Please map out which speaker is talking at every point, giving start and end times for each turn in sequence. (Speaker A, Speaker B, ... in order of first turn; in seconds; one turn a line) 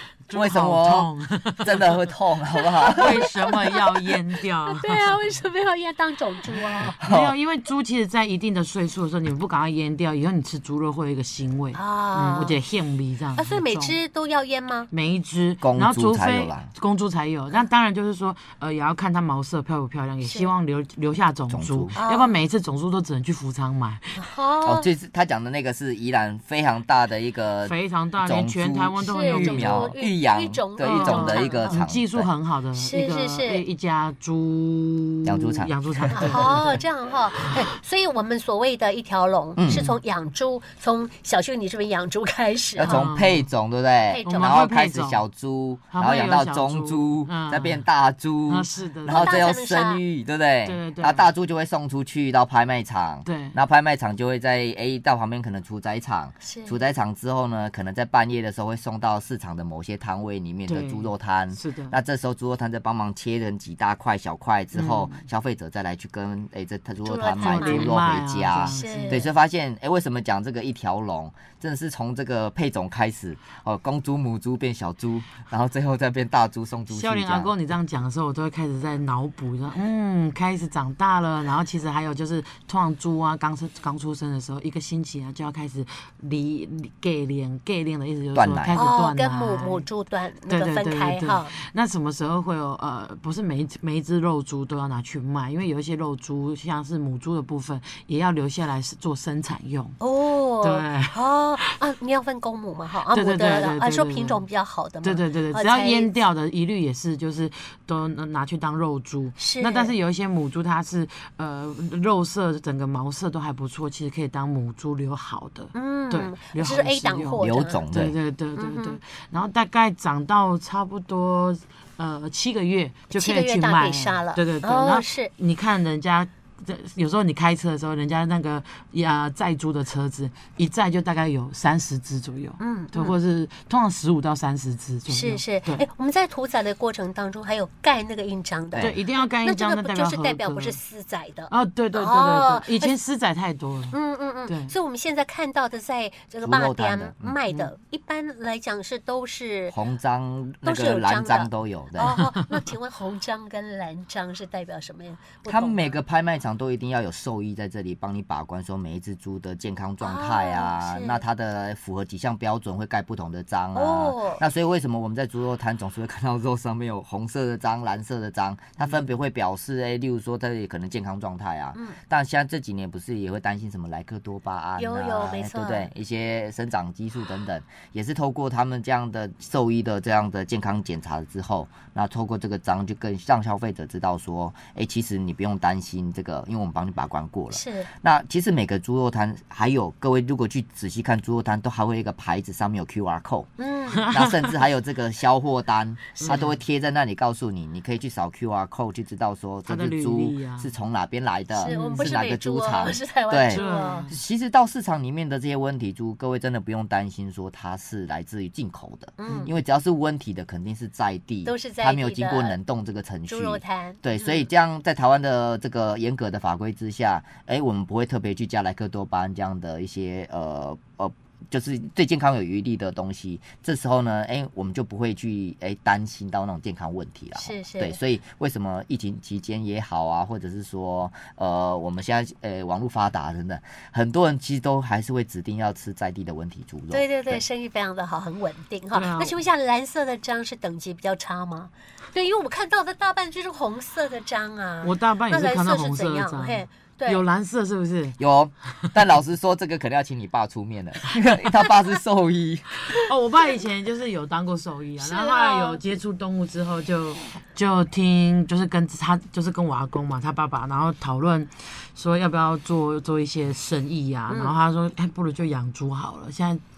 Speaker A: 0.3-2.1
Speaker B: 0.3-1.1
Speaker B: 1.6-3.1
Speaker A: 2.9-5.3
Speaker C: 2.9-7.0
Speaker B: 7.0-7.3
Speaker A: 7.0-14.0
Speaker C: 11.7-12.6
Speaker C: 13.3-14.9
Speaker A: 14.9-24.2
Speaker B: 15.6-16.7
Speaker C: 20.2-20.5
Speaker B: 21.5-21.9
Speaker C: 21.9-22.4
Speaker C: 24.2-24.9
Speaker B: 24.6-32.3
Speaker A: 27.6-30.0
Speaker C: 29.0-31.8
Speaker A: 30.8-36.8
Speaker C: 32.7-33.6
Speaker B: 35.2-36.5
Speaker C: 36.1-43.0
Speaker B: 39.6-39.9
Speaker A: 39.7-40.0
Speaker A: 42.8-43.5
Speaker B: 42.8-77.5
Speaker C: 44.0-44.6
Speaker A: 44.2-45.2
Speaker A: 45.9-47.9
Speaker A: 48.5-49.5
Speaker C: 49.1-50.0
Speaker A: 50.6-51.3
Speaker A: 53.2-53.5
Speaker C: 56.4-56.8
Speaker A: 60.7-62.0
Speaker A: 64.7-65.2
Speaker C: 67.0-67.9
Speaker A: 67.3-69.3
Speaker C: 68.7-69.3
Speaker A: 76.9-89.8
Speaker B: 88.3-88.8
Speaker C: 88.7-91.5
Speaker A: 90.5-100.0
Speaker C: 100.0-106.2
Speaker A: 100.6-101.7
Speaker A: 103.1-104.4
Speaker A: 105.0-135.8
Speaker C: 109.4-109.9
Speaker C: 115.7-117.8
Speaker B: 117.4-118.2
Speaker C: 118.5-119.0
Speaker C: 123.1-125.3
Speaker C: 132.6-133.1
Speaker C: 135.1-142.9
Speaker B: 138.7-139.0
Speaker A: 138.8-140.8
Speaker A: 141.5-144.7
Speaker C: 143.9-149.8
Speaker B: 146.4-147.4
Speaker B: 149.7-152.2
Speaker C: 150.6-156.0
Speaker A: 152.1-152.6
Speaker B: 155.5-193.5
Speaker C: 160.0-161.2
Speaker C: 163.7-164.4
Speaker C: 174.8-175.9
Speaker C: 187.5-187.9
Speaker C: 193.6-194.1
Speaker A: 193.9-194.5
Speaker B: 194.1-237.4
Speaker A: 196.2-196.6
Speaker A: 199.7-200.7
Speaker C: 201.5-204.1
Speaker A: 201.7-202.1
Speaker A: 203.5-204.2
Speaker C: 209.2-209.5
Speaker C: 211.4-212.6
Speaker C: 213.3-214.5
Speaker C: 227.3-228.0
Speaker C: 236.9-247.2
Speaker A: 238.9-239.4
Speaker A: 244.8-248.2
Speaker B: 248.2-252.7
Speaker A: 252.9-266.6
Speaker C: 255.0-255.8
Speaker C: 264.3-264.6